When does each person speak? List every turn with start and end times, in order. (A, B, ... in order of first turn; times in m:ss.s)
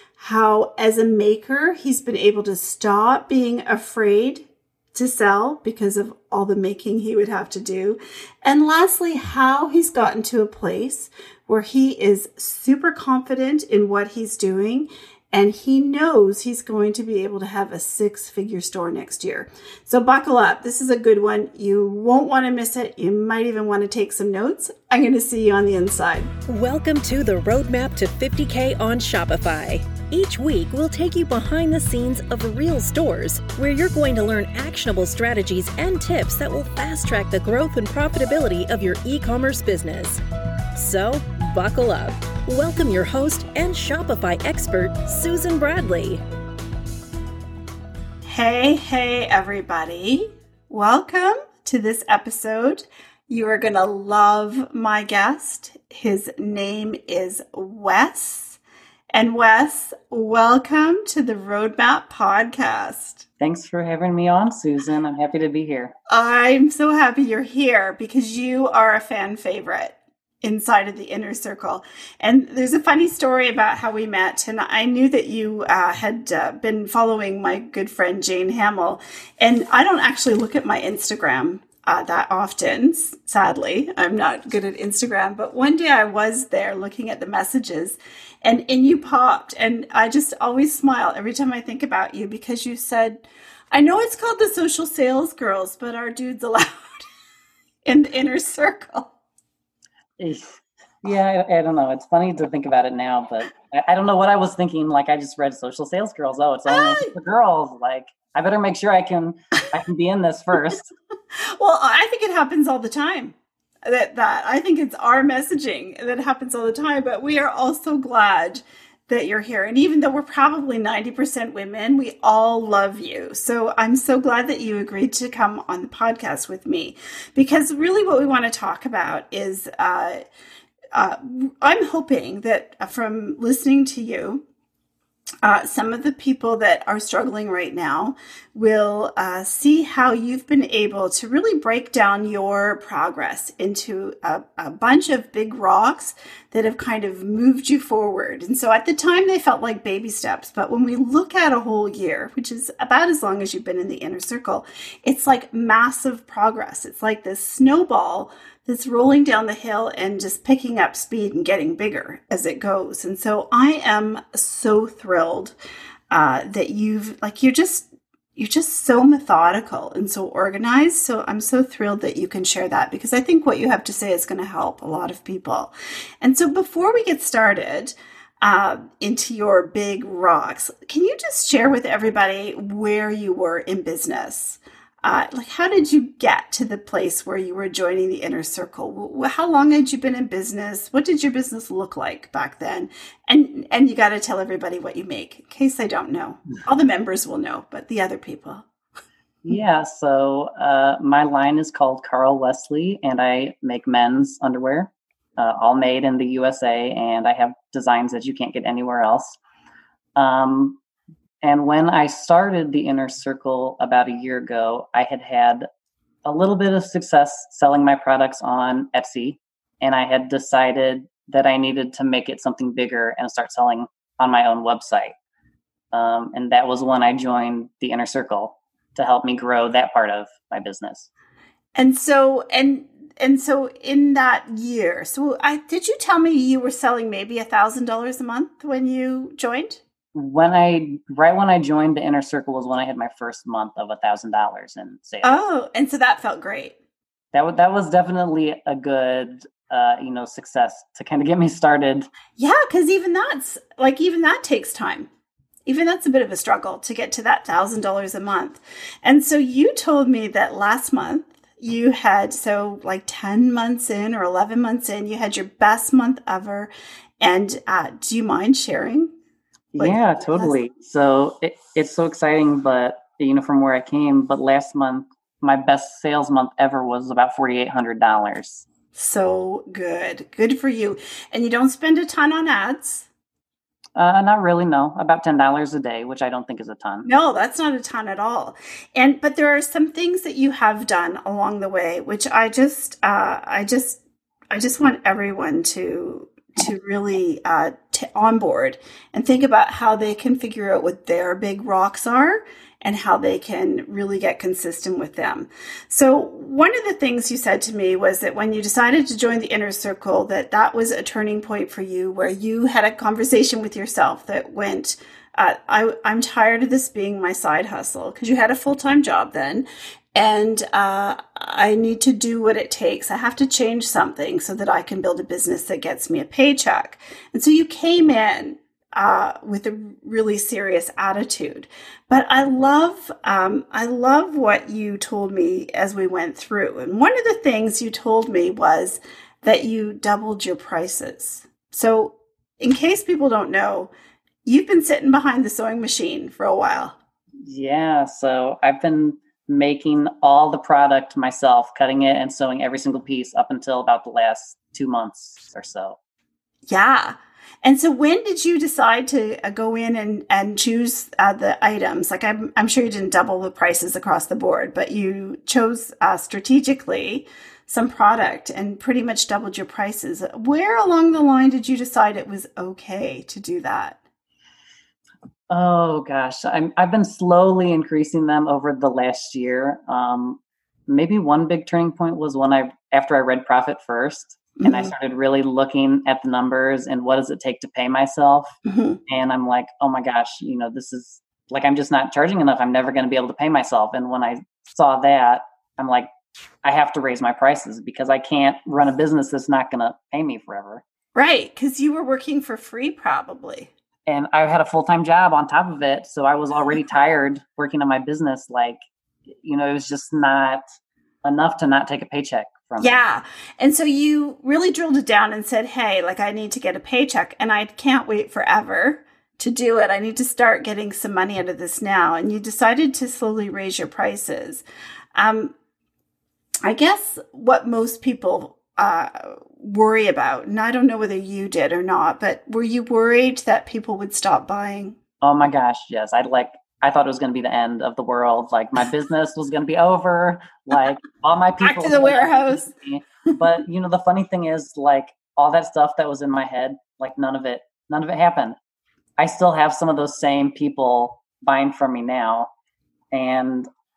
0:00.2-0:26.3 A
0:26.5-0:40.2 B
0:40.7-0:46.2 B
0:48.2-0:58.6 A
0:59.1-1:03.2 A
1:03.4-1:05.9 C
1:06.1-1:37.0 A
1:37.8-1:39.1 A
1:40.2-1:50.9 C
1:46.7-1:47.1 A
1:51.6-1:53.3 A
1:53.8-2:10.2 A
2:10.9-2:14.4 A
2:15.4-2:45.5 A
2:46.1-3:18.6 A
3:19.4-3:29.4 C
3:30.2-3:30.8 C
3:31.4-3:35.6 C
3:36.2-3:45.1 C
3:45.9-3:51.1 C
3:51.7-3:59.8 A
4:00.1-4:05.4 C
4:05.2-4:06.7 A
4:07.3-4:12.1 C
4:12.4-4:15.1 A
4:15.6-4:29.1 A
4:29.7-4:30.6 A
4:29.7-4:38.7 C
4:38.9-4:43.1 A
4:44.0-4:47.1 C
4:47.0-4:54.0 A
4:54.5-5:43.9 A
5:44.4-5:46.9 A
5:47.4-5:56.0 C
5:56.7-6:14.0 A
6:15.5-6:28.6 C
6:24.6-6:24.9 A
6:28.6-6:29.0 A
6:29.1-6:36.1 C
6:36.6-6:40.8 C
6:41.2-6:43.7 A
6:44.0-6:48.8 C
6:49.4-6:50.6 C
6:51.2-6:53.0 C
6:52.8-7:04.6 A
7:05.1-7:05.5 A
7:06.6-7:15.0 A
7:15.2-7:28.6 C
7:21.6-7:22.7 A
7:29.2-7:32.5 C
7:33.1-7:33.7 C